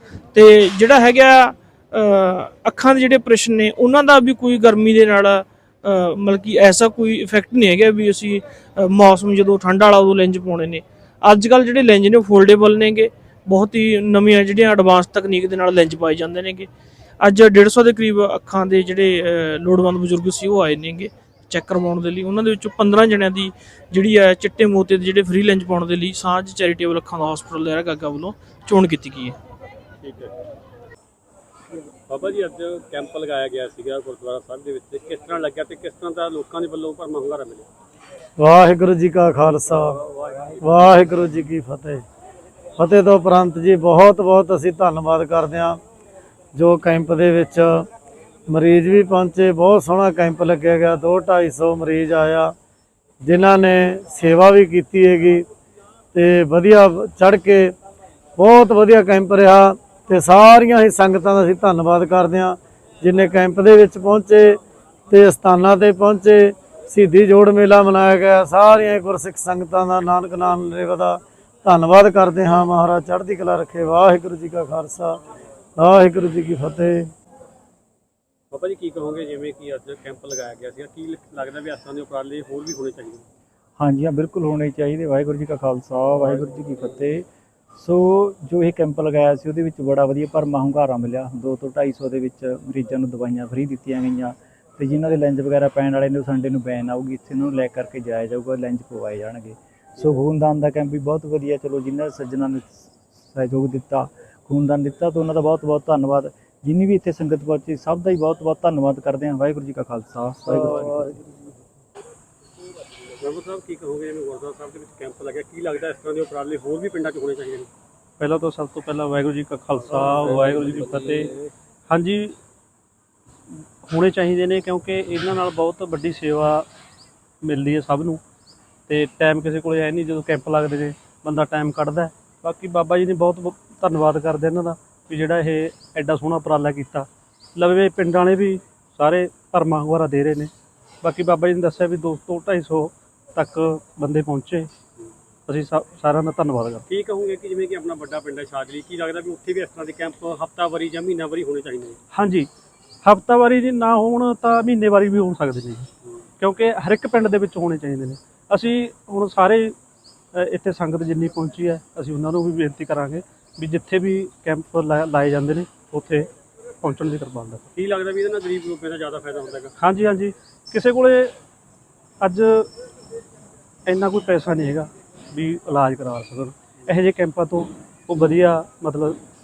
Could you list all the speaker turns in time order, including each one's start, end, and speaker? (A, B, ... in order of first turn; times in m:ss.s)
0:00.3-0:16.7 A
0:17.2-0:29.4 A
0:30.0-0:30.3 B
0:32.1-0:37.7 B
0:38.4-0:40.0 C
0:39.6-0:41.3 B
0:40.6-0:42.0 C
0:42.8-0:45.8 C
0:46.6-0:47.8 C
0:48.5-0:52.5 C
0:53.2-0:55.4 C
0:56.1-0:57.7 C
0:58.4-1:04.6 C
1:05.1-1:15.2 C
1:15.8-1:17.1 C
1:18.5-1:23.3 B
1:23.8-1:51.2 D
1:53.2-1:57.7 B
1:58.2-2:01.3 E
1:59.9-2:01.3 B
2:01.9-2:02.4 E
2:03.8-2:06.7 E
2:07.4-2:08.2 E
2:08.9-2:20.5 E
2:21.0-2:24.7 E
2:25.5-2:26.8 E
2:26.9-2:32.0 B
2:32.1-2:32.5 E
2:33.0-2:35.9 E
2:36.4-2:39.8 E
2:40.3-2:46.3 E
2:46.8-2:47.6 E
2:47.8-2:49.7 B
2:49.8-2:51.3 E
2:52.2-2:52.7 E
2:53.9-2:59.2 E